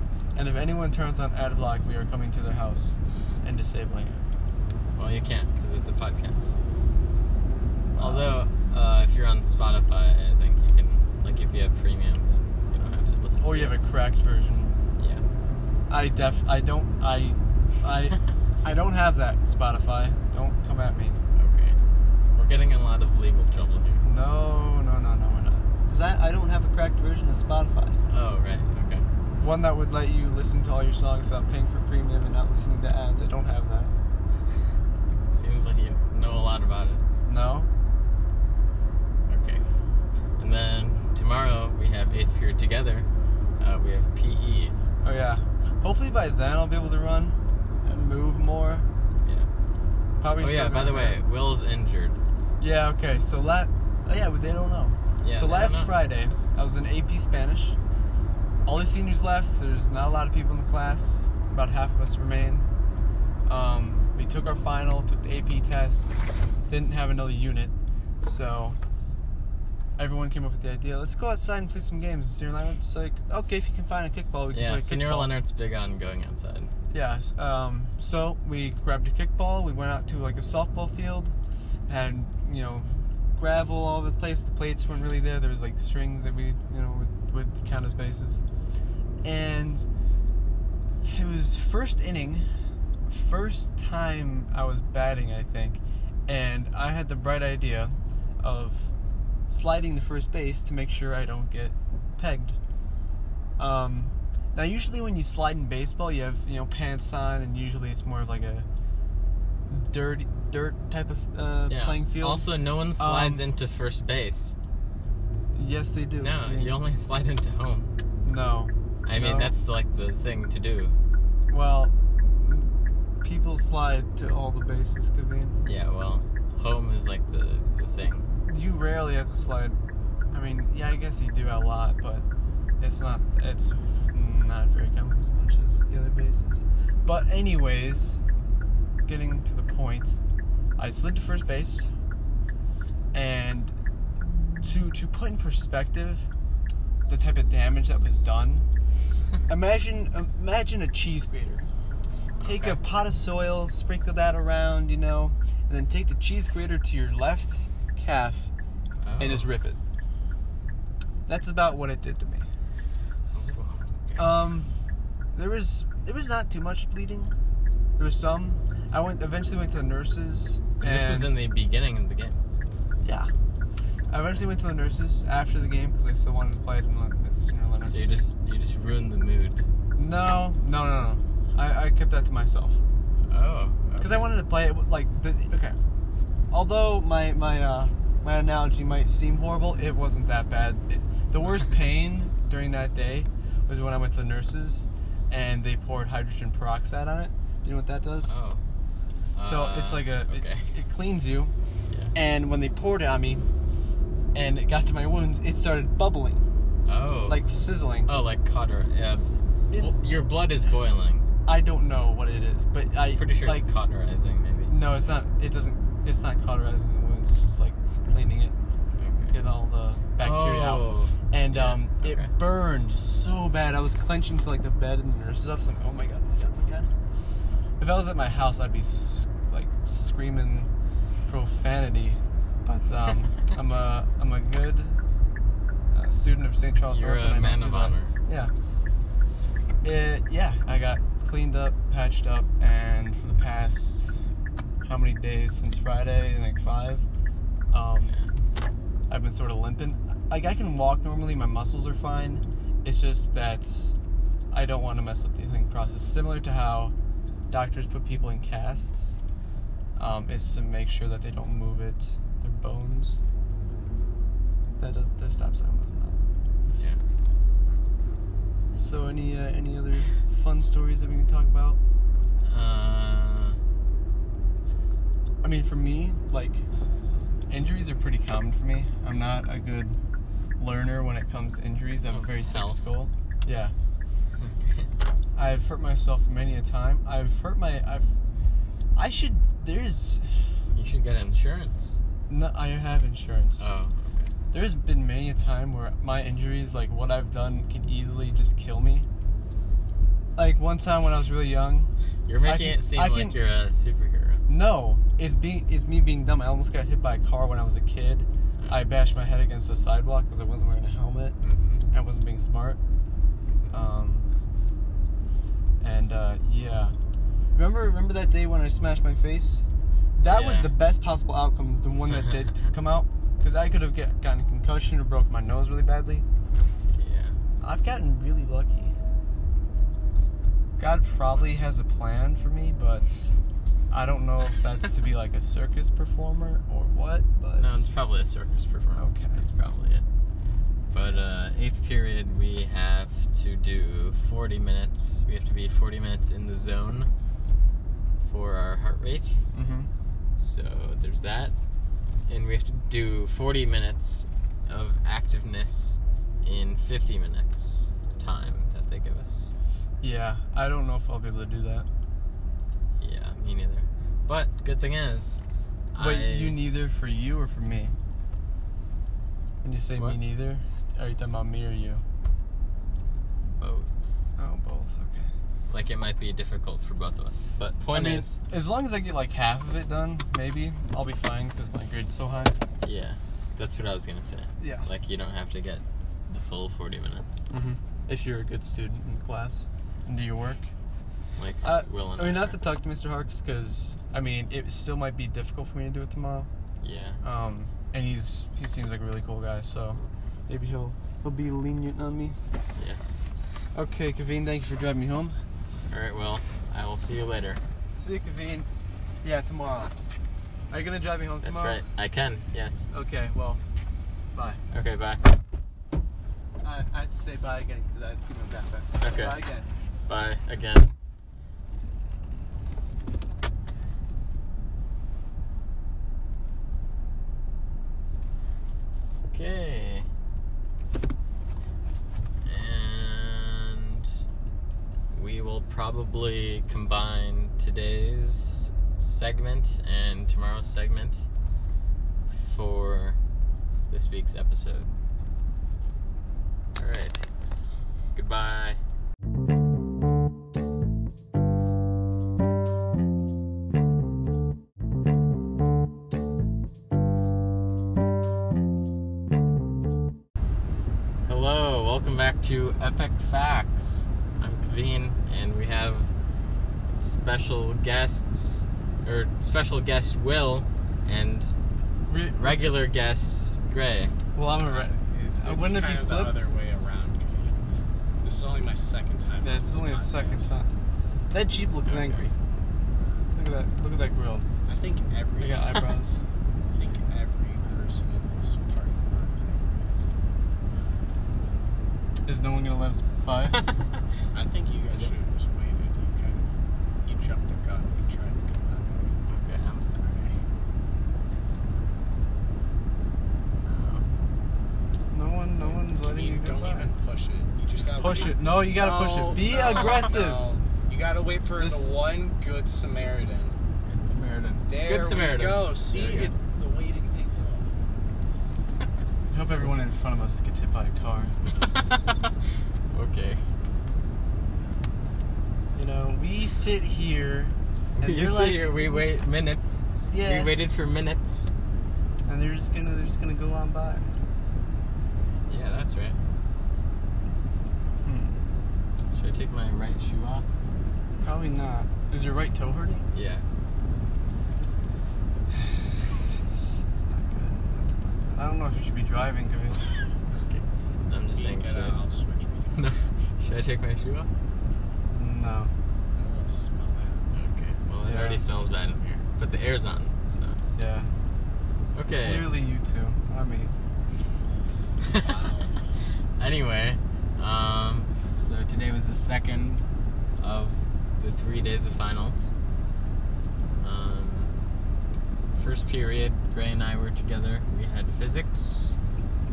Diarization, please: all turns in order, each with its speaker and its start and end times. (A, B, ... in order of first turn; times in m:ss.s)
0:00.3-0:04.2 A
0:04.9-0:06.5 B
0:07.9-0:08.3 A
0:08.0-0:13.8 B
0:13.4-0:14.8 A
0:15.0-0:15.2 B
0:15.9-0:21.2 A
0:21.3-0:21.8 B
0:22.3-0:24.0 B
0:24.0-0:28.0 A
0:28.1-0:29.0 B
0:29.4-0:33.9 A
0:35.3-0:37.0 B
0:37.2-0:37.7 A
0:39.3-0:39.6 B
0:40.4-0:43.1 B
0:43.6-0:44.7 B
0:45.0-0:48.8 A
0:49.2-0:49.5 B
0:50.2-0:51.2 A
0:50.4-0:52.2 B
0:52.6-0:57.8 A
0:55.2-0:55.9 B
0:58.6-1:02.7 A
1:03.4-1:06.2 A
1:06.7-1:08.8 A
1:10.0-1:15.3 A
1:14.5-1:16.7 B
1:16.9-1:21.3 A
1:21.9-1:28.4 A
1:29.2-1:29.9 A
1:31.0-1:32.5 A
1:33.1-1:38.9 A
1:39.5-1:42.6 A
1:43.6-1:48.7 A
1:49.7-1:53.4 A
1:51.7-1:54.6 B
1:55.5-1:56.7 A
1:56.2-1:57.9 B
1:58.2-1:59.5 A
1:59.0-2:01.0 B
2:01.5-2:05.6 A
2:05.6-2:08.3 B
2:08.4-2:09.8 A
2:10.3-2:12.2 A
2:12.8-2:18.2 A
2:19.0-2:20.2 A
2:20.8-2:21.9 A
2:23.1-2:23.8 A
2:24.6-2:26.3 A
2:27.1-2:28.6 A
2:29.5-2:31.7 A
2:32.4-2:32.8 B
2:32.4-2:38.5 A
2:39.0-2:39.5 B
2:39.2-2:39.8 A
2:41.3-2:42.4 A
2:43.3-2:44.4 B
2:44.2-2:44.7 A
2:45.3-2:47.3 A
2:48.0-2:51.4 A
2:50.8-2:52.4 B
2:53.0-2:53.3 A
2:54.1-2:58.3 A
2:57.8-2:59.6 B
3:00.0-3:02.8 A
3:03.3-3:04.3 B
3:04.0-3:05.8 A
3:06.5-3:18.3 A
3:18.2-3:18.6 B
3:19.3-3:20.7 B
3:19.4-3:21.5 A
3:22.1-3:23.4 A
3:24.3-3:26.4 A
3:26.8-3:27.4 B
3:27.3-3:28.1 A
3:28.1-3:31.3 B
3:29.7-3:30.2 A
3:31.4-3:33.6 A
3:33.1-3:34.7 B
3:34.7-3:38.6 A
3:39.0-3:39.3 B
3:39.3-3:46.9 A
3:40.2-3:42.3 B
3:47.8-3:50.7 A
3:51.2-3:55.0 A
3:55.9-3:58.5 A
3:56.9-3:58.1 B
3:59.8-4:04.1 A
4:04.8-4:07.0 A
4:07.7-4:08.1 A
4:09.1-4:13.9 A
4:14.5-4:16.9 A
4:17.5-4:19.2 A
4:20.0-4:23.2 A
4:24.8-4:26.2 A
4:28.8-4:31.8 A
4:32.4-4:33.6 B
4:35.4-4:36.6 A
4:37.5-4:40.0 A
4:40.6-4:43.7 A
4:42.1-4:42.8 B
4:44.4-4:44.9 B
4:45.3-4:48.1 A
4:48.9-4:50.3 A
4:50.7-4:51.9 B
4:52.3-4:53.7 A
4:53.6-4:54.3 B
4:54.5-4:59.1 A
5:00.4-5:01.9 A
5:02.2-5:04.4 B
5:02.4-5:03.4 A
5:04.5-5:11.4 A
5:08.6-5:09.2 B
5:11.4-5:11.8 B
5:11.9-5:12.8 A
5:13.4-5:13.8 B
5:13.7-5:14.2 A
5:15.8-5:16.9 A
5:17.5-5:19.6 A
5:20.2-5:26.2 A
5:20.2-5:20.7 B
5:26.9-5:27.4 B
5:27.6-5:28.9 A
5:30.8-5:33.3 A
5:33.9-5:37.9 A
5:37.5-5:40.0 B
5:39.0-5:39.4 A
5:40.9-5:47.1 B
5:48.2-5:49.4 B
5:49.5-5:49.9 A
5:50.4-5:51.5 B
5:52.3-5:59.5 B
6:00.0-6:01.9 A
6:03.0-6:06.6 B
6:06.0-6:07.9 A
6:09.6-6:12.0 A
6:13.6-6:13.9 B
6:14.4-6:15.3 A
6:15.7-6:18.4 B
6:17.9-6:22.6 A
6:22.8-6:27.4 B
6:24.6-6:24.8 A
6:27.5-6:30.7 A
6:31.4-6:32.6 B
6:31.6-6:36.5 A
6:36.8-6:37.2 B
6:37.2-6:42.4 A
6:42.8-6:43.2 B
6:43.7-6:45.4 A
6:45.9-6:47.6 B
6:47.9-6:48.7 A
6:49.2-6:49.9 A
6:50.7-6:51.8 A
6:51.4-6:52.8 B
6:52.9-6:53.6 A
6:54.3-6:54.6 A
6:54.7-6:55.3 B
6:56.6-6:59.7 A
6:59.0-6:59.4 B
7:00.1-7:00.9 B
7:09.2-7:10.1 B
7:12.4-7:14.1 B
7:15.1-7:21.2 B
7:22.3-7:23.2 B
7:23.9-7:24.9 B
7:26.8-7:27.2 B
7:28.1-7:28.8 B
7:41.2-7:46.1 B
7:46.9-7:51.5 B
7:52.1-7:52.7 A
7:52.4-7:54.1 B
7:54.3-7:56.5 A
7:54.6-8:00.5 C
7:59.4-8:00.7 A
8:01.3-8:02.3 A
8:01.8-8:02.3 B
8:03.3-8:04.5 A
8:04.6-8:06.0 C
8:05.4-8:06.2 A
8:06.7-8:09.9 C
8:12.2-8:13.7 A
8:14.3-8:16.5 C
8:17.0-8:19.2 C
8:19.3-8:20.0 B
8:20.0-8:20.4 C
8:23.6-8:24.1 B
8:25.1-8:26.9 A
8:25.6-8:33.6 C
8:28.0-8:30.5 A
8:29.5-8:30.1 B
8:31.6-8:32.0 A
8:33.9-8:34.6 A
8:34.6-8:37.7 C
8:34.8-8:35.8 B
8:35.9-8:36.3 A
8:39.3-8:41.3 A
8:41.6-8:42.3 B
8:42.9-8:43.4 B
8:45.7-8:49.0 A
8:48.0-8:51.5 B
8:50.1-8:50.5 A
8:52.2-8:54.1 A
8:55.5-8:56.2 B
8:58.0-8:58.4 A
8:59.1-9:00.5 B
9:01.2-9:03.1 A
9:03.1-9:03.4 B
9:05.6-9:09.9 A
9:10.4-9:12.0 B
9:11.3-9:12.9 C
9:12.7-9:14.3 B
9:15.1-9:15.7 A
9:16.2-9:17.2 C
9:17.3-9:20.6 B
9:18.0-9:18.4 A
9:20.8-9:21.1 A
9:21.9-9:22.5 B
9:22.1-9:23.7 A
9:25.0-9:25.3 B
9:25.1-9:25.9 C
9:26.4-9:29.8 B
9:30.4-9:32.5 B
9:33.8-9:34.5 B
9:35.5-9:39.0 B